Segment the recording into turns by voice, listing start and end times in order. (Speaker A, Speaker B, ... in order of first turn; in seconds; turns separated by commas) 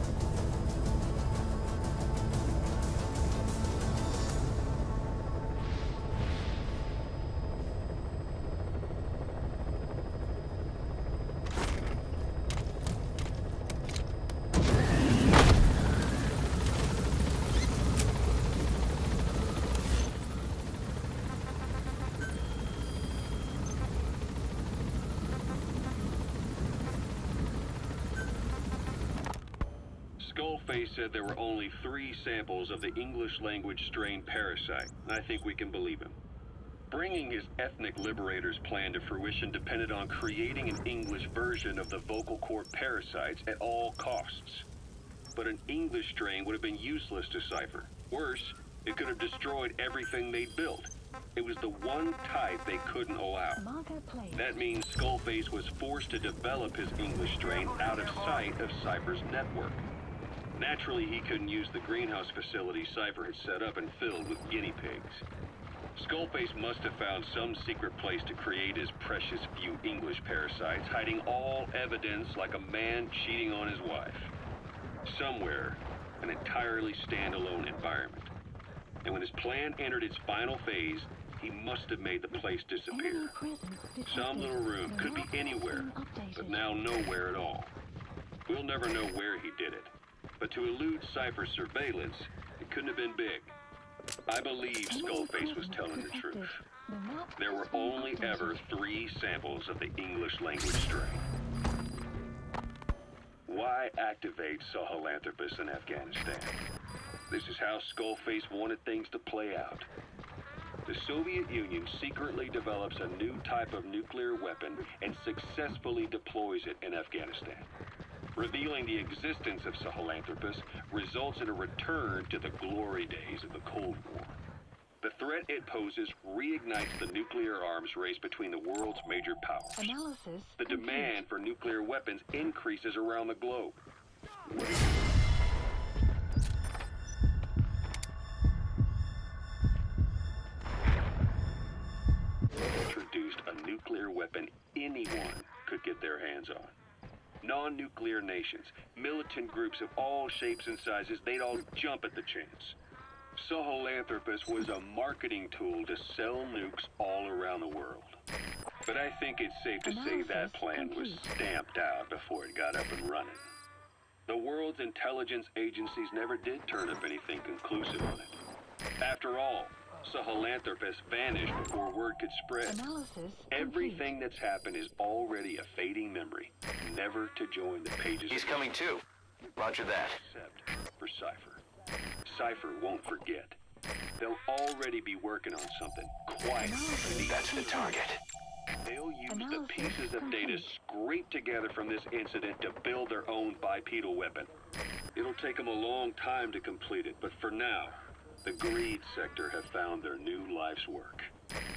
Speaker A: 30.2-36.2, Speaker A: 36.9-44.7, Speaker A: 45.3-53.6, Speaker B: 53.5-54.6, Speaker A: 54.3-59.8, Speaker A: 60.5-65.2, Speaker A: 65.9-74.3, Speaker A: 75.0-78.3, Speaker A: 79.0-83.3, Speaker B: 82.9-86.6, Speaker A: 84.0-87.7, Speaker A: 88.5-93.5, Speaker A: 94.3-96.5, Speaker B: 94.9-98.7, Speaker A: 97.4-101.3, Speaker A: 103.5-106.6, Speaker A: 107.3-109.9, Speaker A: 110.8-117.7, Speaker A: 118.3-124.4, Speaker A: 125.0-129.9, Speaker B: 129.8-131.2, Speaker A: 130.6-133.8, Speaker A: 142.8-146.7, Speaker A: 147.4-152.8, Speaker A: 153.3-158.2, Speaker A: 158.8-163.5, Speaker B: 159.8-161.3, Speaker A: 164.3-168.4, Speaker A: 169.0-172.9, Speaker B: 172.7-174.1, Speaker A: 173.5-178.7, Speaker C: 178.3-179.0, Speaker C: 179.6-180.2, Speaker A: 180.1-181.6, Speaker A: 182.2-183.6, Speaker A: 184.2-187.9, Speaker B: 186.6-188.0, Speaker C: 187.2-188.2, Speaker A: 188.8-194.5, Speaker B: 189.3-190.7, Speaker A: 195.1-201.3